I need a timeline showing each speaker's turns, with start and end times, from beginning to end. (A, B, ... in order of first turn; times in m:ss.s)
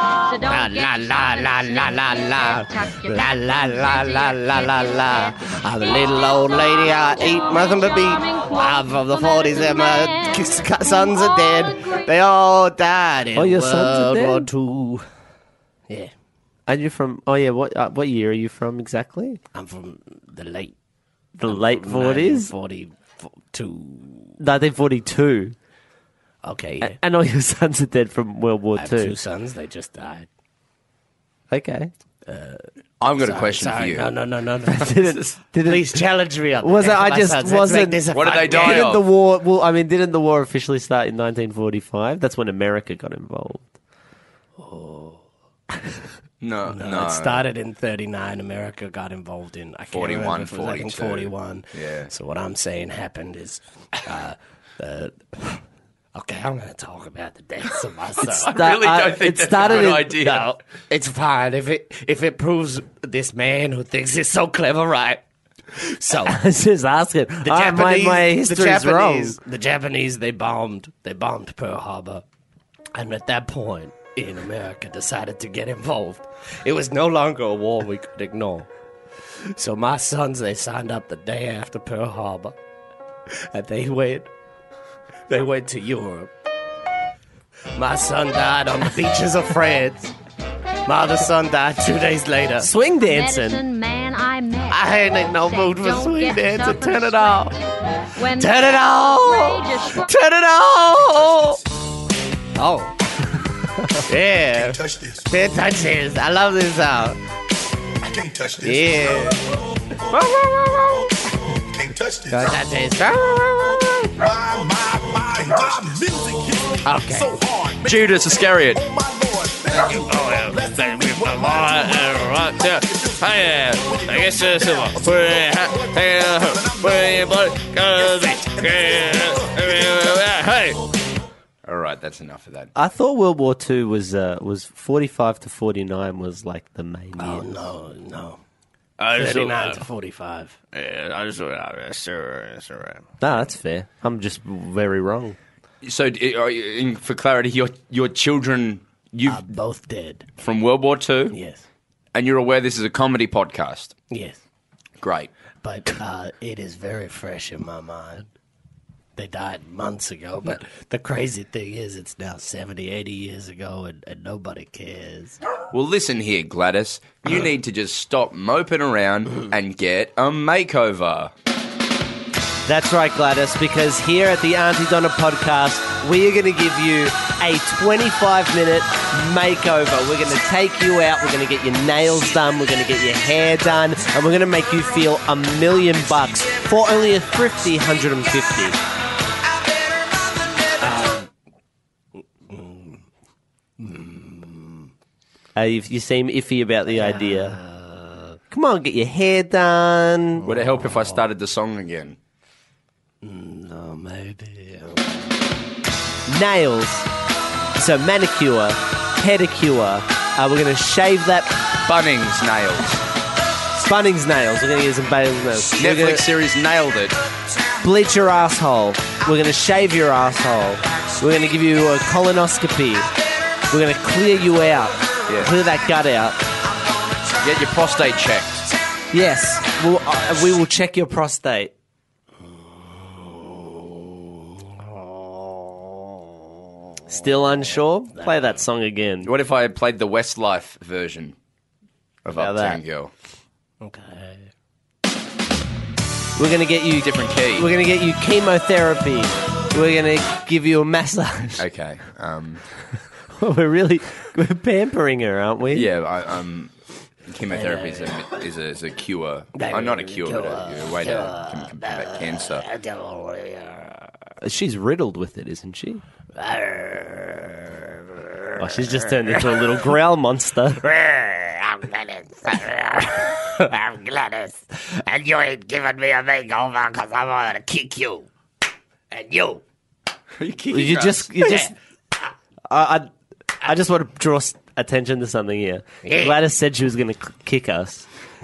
0:00.3-0:05.3 A
0:00.4-0:15.0 B
0:07.2-0:12.0 A
0:13.3-0:14.5 C
0:16.7-0:19.4 C
0:19.5-0:20.7 B
0:21.4-0:22.5 C
0:21.5-0:24.4 B
0:24.4-0:25.5 C
0:26.4-0:27.0 B
0:26.8-0:29.2 C
0:28.8-0:30.3 B
0:31.5-0:31.9 C
0:32.2-0:32.6 B
0:33.0-0:34.1 D
0:33.2-0:38.9 B
0:34.7-0:36.0 C
0:36.6-0:43.7 C
0:38.1-0:39.0 D
0:44.6-0:45.2 B
0:46.4-0:47.4 D
0:46.7-0:55.6 B
0:49.9-0:52.1 D
0:56.1-0:58.5 B
0:58.2-1:00.5 D
0:58.4-1:00.3 C
0:59.6-1:05.2 B
1:05.7-1:06.4 B
1:06.2-1:09.4 C
1:07.4-1:12.2 B
1:12.9-1:18.7 B
1:19.5-1:22.5 B
1:23.3-1:24.3 B
1:25.3-1:26.3 B
1:27.7-1:30.1 B
1:30.8-1:32.7 B
1:32.6-1:33.6 C
1:33.0-1:37.5 A
1:34.7-1:37.5 B
1:38.1-1:40.1 A
1:38.4-1:41.6 B
1:42.6-1:42.9 B
1:44.0-1:47.2 B
1:44.5-1:45.2 E
1:48.0-1:49.4 E
1:48.6-1:49.4 B
1:50.1-1:52.6 E
1:52.3-1:54.1 B
1:54.2-1:58.1 E
1:56.8-1:57.3 B
1:57.8-1:58.8 D
1:58.7-2:09.9 E
2:00.0-2:10.8 F
2:11.6-2:12.7 D
2:12.8-2:17.5 C
2:17.2-2:18.4 B
2:19.0-2:19.8 F
2:19.1-2:20.6 B
2:20.7-2:23.0 F
2:23.2-2:25.4 C
2:25.8-2:29.4 D
2:29.2-2:30.2 B
2:30.4-2:31.4 D
2:31.3-2:31.6 B
2:32.1-2:33.9 D
2:34.1-2:34.4 B
2:35.0-2:35.3 D
2:35.6-2:38.3 B
2:39.2-2:45.4 B
2:45.7-2:51.3 D
2:52.6-3:08.8 C
3:10.8-3:11.3 B
3:12.5-3:13.0 B
3:13.8-3:14.9 B
3:15.5-3:17.6 C
3:16.9-3:18.4 B
3:18.5-3:20.5 C
3:20.4-3:21.2 B
3:20.4-3:22.2 D
3:23.2-3:25.1 B
3:26.3-3:27.1 C
3:27.7-3:31.6 C
3:31.8-3:33.0 D
3:33.8-3:36.2 C
3:35.8-3:37.2 D
3:37.8-3:43.1 C
3:43.7-3:46.4 C
3:45.3-3:45.5 D
3:47.4-3:48.7 D
3:49.1-3:51.7 C
3:52.7-3:56.2 B
3:57.1-3:59.3 C
3:59.2-4:01.4 D
4:02.2-4:03.1 D
4:02.3-4:02.8 C
4:03.8-4:04.5 B
4:06.4-4:11.6 C
4:07.0-4:07.7 D
4:11.6-4:12.6 D
4:13.3-4:15.9 C
4:15.7-4:16.7 D
4:17.3-4:22.6 D
4:17.5-4:18.2 B
4:19.5-4:24.1 B
4:24.4-4:26.0 C
4:26.4-4:29.6 B
4:28.6-4:30.8 C
4:30.8-4:38.3 B
4:39.1-4:39.6 B
4:40.4-4:41.3 D
4:40.7-4:41.7 C
4:41.4-4:41.7 B
4:42.7-4:43.1 C
4:43.6-4:48.1 C
4:46.0-4:46.4 B